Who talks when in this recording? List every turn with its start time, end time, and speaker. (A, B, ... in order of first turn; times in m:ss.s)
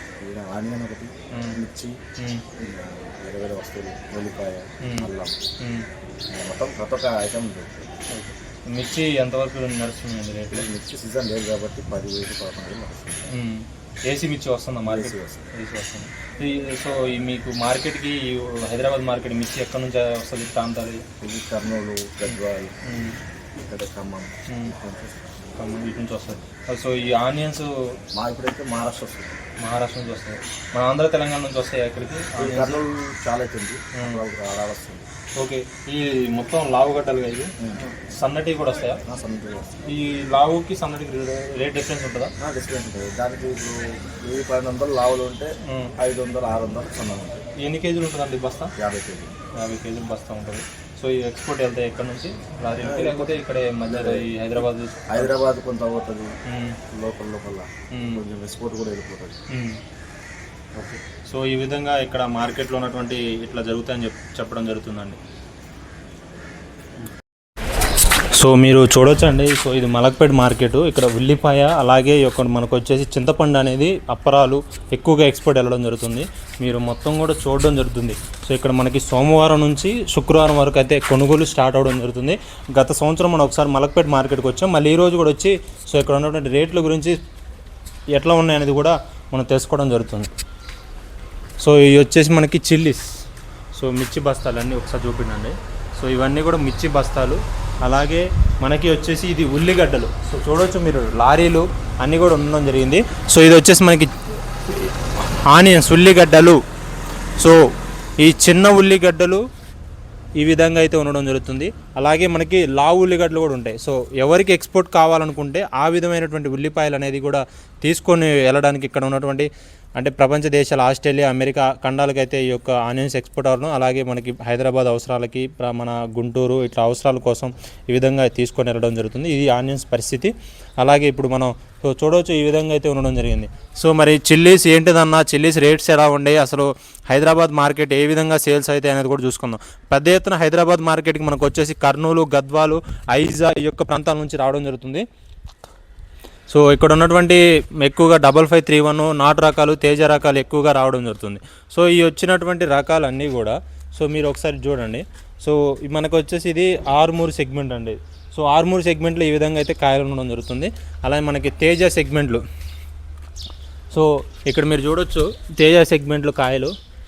0:00.2-0:02.0 A
0:01.3-0:01.6 B
0:02.2-0:02.4 B
0:02.6-0:05.4 A
0:04.8-0:05.9 B
0:06.3-0:08.0 A
0:08.1-0:10.7 B
0:10.5-0:13.3 A
0:13.3-0:21.0 B
0:14.9-0:15.5 A
0:21.2-0:22.8 A
0:22.3-0:23.2 B
0:23.6-0:25.4 A
0:24.5-0:24.7 B
0:25.6-0:27.7 B
0:28.1-0:29.4 A
0:29.6-0:32.8 B
0:32.4-0:35.1 A
0:34.0-0:34.2 B
0:35.4-0:39.0 B
0:39.0-0:39.8 A
0:39.8-0:42.3 B
0:42.4-0:47.4 A
0:45.6-0:45.9 B
0:47.6-0:48.7 B
0:48.8-0:49.3 A
0:49.5-0:55.3 B
0:52.8-0:54.3 A
0:55.1-0:56.3 A
0:56.5-0:56.8 B
0:56.9-0:59.4 A
0:57.9-0:58.2 B
0:59.5-0:59.8 B
1:01.3-1:05.2 B
1:08.3-1:27.2 B
1:28.1-1:30.3 B
1:31.6-1:33.1 B
1:33.8-1:44.2 B
1:44.7-1:46.6 B
1:48.2-1:49.4 B
1:50.4-2:25.0 B
2:26.5-2:42.4 B
2:43.9-2:46.7 B